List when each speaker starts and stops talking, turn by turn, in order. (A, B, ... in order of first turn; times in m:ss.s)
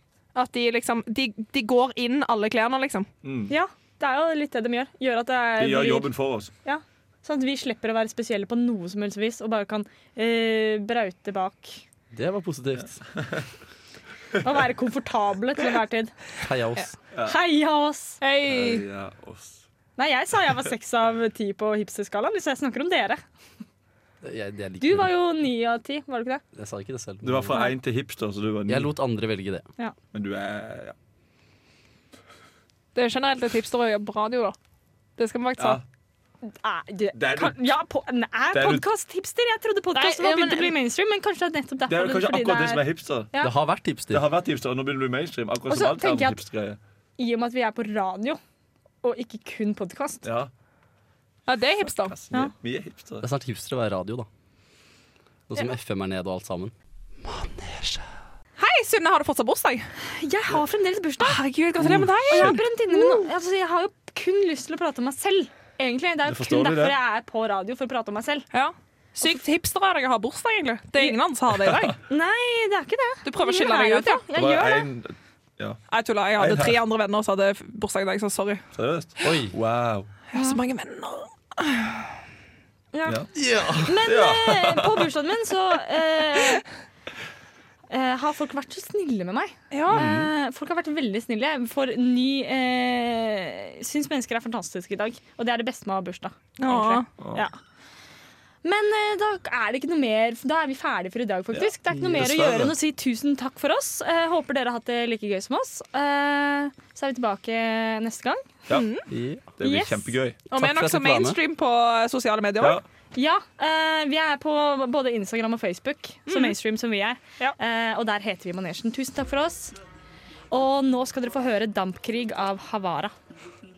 0:00.3-0:03.1 A
0:03.2-0:03.5 B
0:03.5-0:06.1 C
0:05.6-0:06.5 B
0:06.6-0:11.8 C
0:12.1-0:13.0 D
0:14.4-0:16.1 C
0:16.4-0:17.0 D
0:17.2-0:18.2 C
0:18.2-0:18.9 A
0:18.5-0:19.6 B
0:20.0-0:23.2 C
0:24.2-0:25.1 D
0:24.8-0:26.4 C
0:26.5-0:27.7 D
0:27.2-0:28.9 B
0:28.7-0:29.6 D
0:30.1-0:30.9 B
0:32.9-0:34.6 A
0:35.2-0:35.8 A
0:35.6-0:35.8 B
0:36.4-0:43.5 C
0:37.1-0:37.7 B
0:38.5-0:38.8 B
0:40.0-0:40.8 A
0:41.9-0:43.3 B
0:43.4-0:44.2 D
0:44.1-0:46.8 B
0:45.7-0:46.4 C
0:47.2-0:48.4 C
0:49.0-0:50.2 C
0:50.2-0:50.5 B
0:51.5-0:52.1 A
0:52.0-0:53.2 B
0:53.2-0:54.3 D
0:55.5-0:58.0 D
0:58.6-0:59.9 A
1:00.1-1:01.4 C
1:01.2-1:03.3 A
1:01.8-1:02.6 B
1:02.3-1:08.4 C
1:06.2-1:07.0 B
1:08.5-1:12.0 A
1:12.0-1:14.9 C
1:13.2-1:14.2 A
1:14.3-1:15.8 B
1:15.9-1:18.6 A
1:16.4-1:16.7 B
1:18.7-1:20.1 B
1:19.2-1:19.5 D
1:20.3-1:22.1 A
1:20.3-1:20.6 C
1:22.9-1:26.6 C
1:23.3-1:24.0 D
1:24.0-1:25.0 B
1:27.9-1:37.6 C
1:29.7-1:30.0 A
1:29.9-1:30.3 D
1:36.6-1:37.1 A
1:38.6-1:48.6 C
1:41.5-1:42.7 B
1:48.7-1:49.0 A
1:49.1-1:49.5 D
1:49.6-1:50.4 B
1:49.6-1:50.1 C
1:50.5-1:52.8 A
1:50.5-1:51.4 D
1:53.1-1:59.8 C
1:56.3-1:56.5 A
2:00.5-2:03.1 C